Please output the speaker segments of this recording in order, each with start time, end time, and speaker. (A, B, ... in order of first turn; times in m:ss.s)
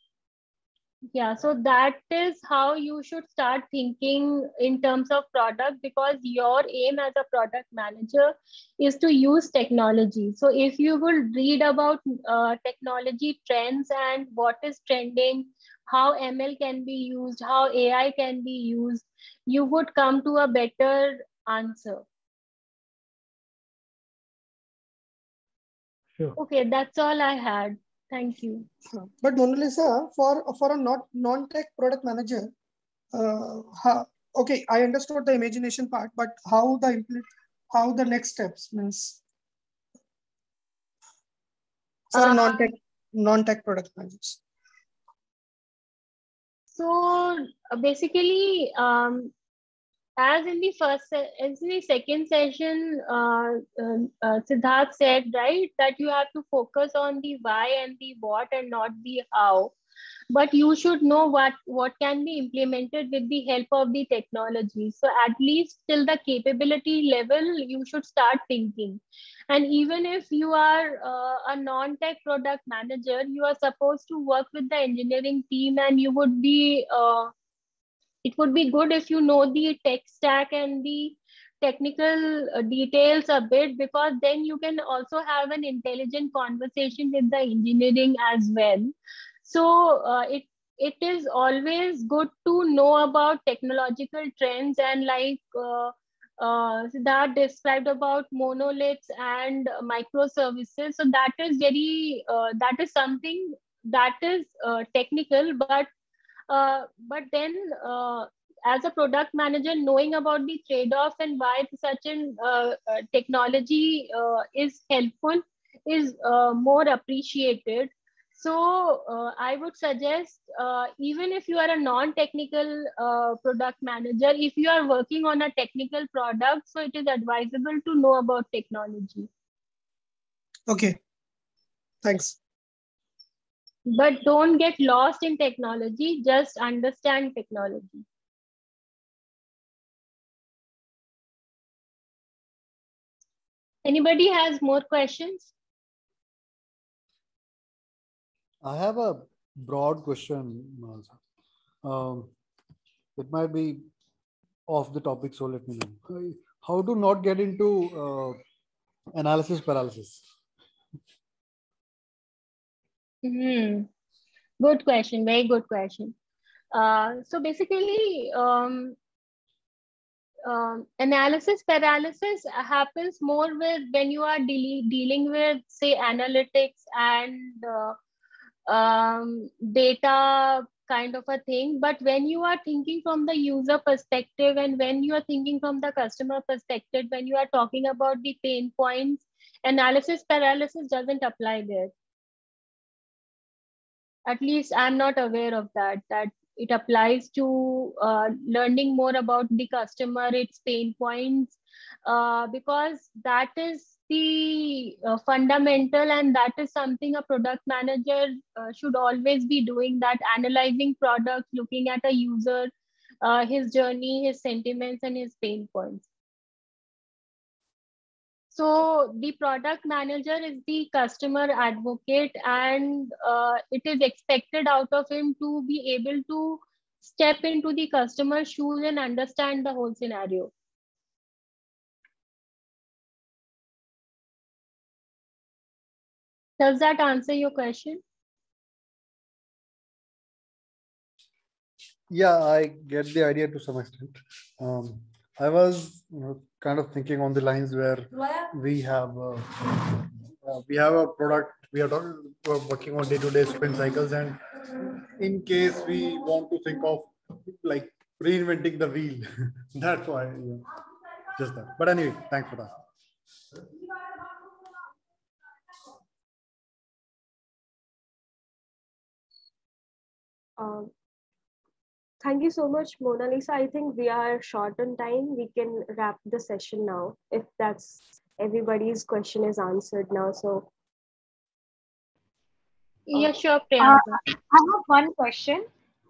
0:01.1-0:22.0 A
0:26.4-0:28.7 A
0:29.0-0:32.5 B
0:33.1-0:39.2 B
0:42.1-0:44.4 B
0:42.1-0:42.7 A
0:46.7-0:49.3 A
0:50.2-0:59.7 A
1:00.3-1:17.3 A
1:18.2-1:28.9 A
1:29.4-1:45.9 A
1:46.5-2:09.3 A
2:10.7-2:11.0 B
2:12.0-2:12.4 B
2:13.9-2:18.0 A
2:23.8-2:25.5 A
2:28.6-2:31.2 C
2:31.8-2:32.3 C
2:33.2-2:33.8 C
2:34.7-2:38.4 C
2:39.1-2:40.2 C
2:43.2-2:43.9 A
2:44.6-2:46.1 A
2:46.7-2:49.0 A
2:50.4-2:58.0 A
2:58.7-3:11.9 A
3:14.3-3:32.7 A
3:33.2-3:36.1 A
3:38.5-3:50.5 A
3:56.6-3:58.0 A
4:02.1-4:20.6 C
4:21.4-4:22.8 C
4:30.6-4:30.9 D
4:32.2-4:40.7 D
4:43.1-4:44.2 A
4:43.1-4:45.7 E